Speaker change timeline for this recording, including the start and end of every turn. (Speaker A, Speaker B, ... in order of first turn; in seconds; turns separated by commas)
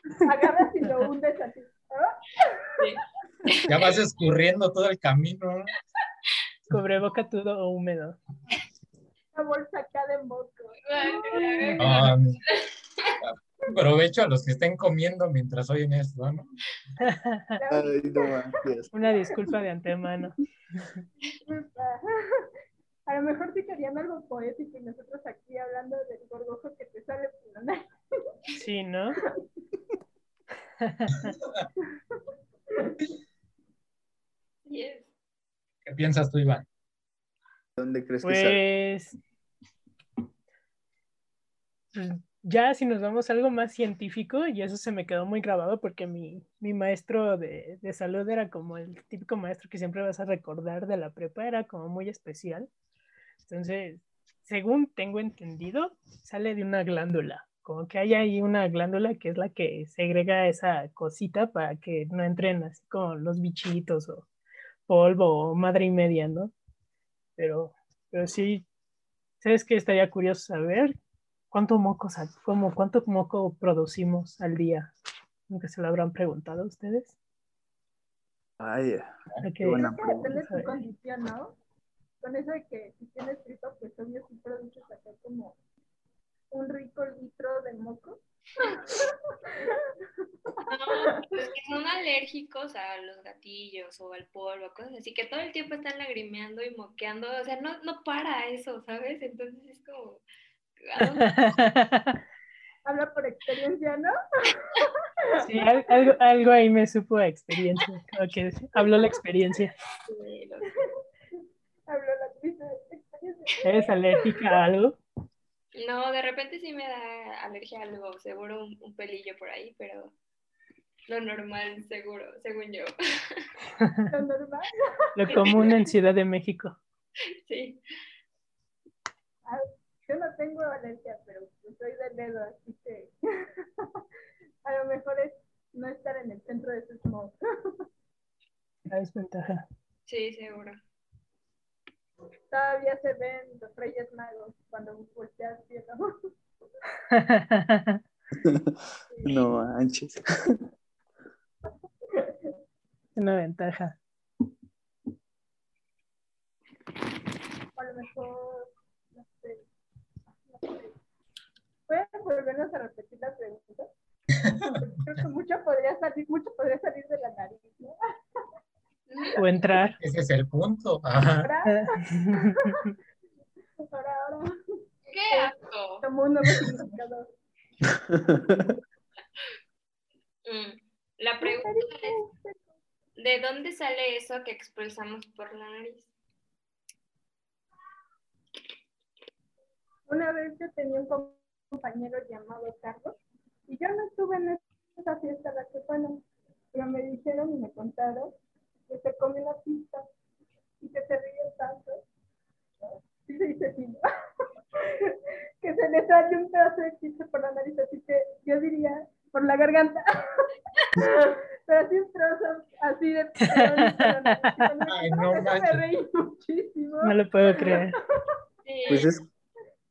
Speaker A: 0.2-2.7, Speaker B: 2.8-4.0, Speaker C: 3.7-5.7, Speaker D: 6.7-8.2, Speaker A: 9.3-12.1, Speaker B: 10.8-13.2, Speaker C: 11.8-12.4, Speaker C: 13.7-16.4, Speaker D: 17.0-17.6, Speaker A: 17.6-18.4, Speaker E: 17.7-18.9, Speaker D: 18.9-21.0, Speaker A: 19.3-19.5, Speaker A: 21.4-22.5, Speaker A: 23.1-28.4, Speaker D: 28.6-29.2, Speaker D: 30.8-31.3, Speaker A: 32.7-33.0, Speaker B: 34.6-35.1, Speaker C: 35.9-36.6, Speaker E: 37.8-38.6, Speaker D: 38.2-39.2, Speaker D: 41.9-52.7, Speaker D: 53.4-64.3, Speaker D: 64.9-66.5, Speaker D: 67.4-68.6, Speaker D: 69.4-71.0, Speaker D: 71.5-74.9, Speaker D: 75.5-77.1, Speaker E: 78.6-80.3, Speaker D: 79.4-80.8, Speaker A: 79.7-81.5, Speaker A: 82.2-85.5, Speaker A: 86.5-89.9, Speaker A: 90.5-91.2, Speaker B: 90.6-100.2, Speaker B: 100.8-101.3, Speaker D: 101.0-102.2, Speaker A: 102.8-105.8, Speaker D: 105.4-109.7, Speaker B: 110.0-110.8, Speaker A: 111.9-114.5, Speaker D: 113.6-115.0, Speaker B: 115.8-120.1, Speaker B: 121.1-123.5, Speaker D: 123.8-124.1, Speaker A: 124.1-125.6, Speaker D: 125.2-126.8, Speaker B: 125.3-125.6, Speaker B: 127.4-127.8, Speaker A: 129.4-134.0, Speaker A: 134.6-137.8, Speaker D: 138.9-139.6, Speaker B: 140.1-140.8, Speaker A: 142.5-146.0, Speaker D: 147.1-148.0, Speaker E: 148.4-150.6, Speaker A: 149.1-149.4, Speaker A: 152.1-152.4, Speaker D: 153.2-154.0, Speaker A: 157.8-159.6, Speaker A: 160.5-160.9, Speaker A: 161.9-163.9, Speaker C: 164.4-164.7, Speaker A: 164.8-168.4, Speaker B: 169.1-169.4, Speaker D: 169.3-170.0, Speaker C: 170.0-171.5, Speaker A: 171.4-172.9, Speaker D: 171.6-172.9, Speaker A: 173.9-174.6, Speaker B: 175.1-176.1, Speaker A: 175.3-177.3, Speaker E: 177.8-178.7, Speaker B: 180.4-182.2, Speaker A: 181.4-182.6, Speaker B: 183.2-186.1, Speaker A: 190.1-193.2, Speaker A: 193.7-198.3, Speaker A: 198.9-200.1, Speaker A: 200.8-202.0, Speaker A: 202.8-218.1, Speaker D: 213.4-214.7, Speaker C: 214.9-215.8, Speaker D: 217.0-218.0, Speaker B: 218.6-219.1, Speaker E: 218.9-219.3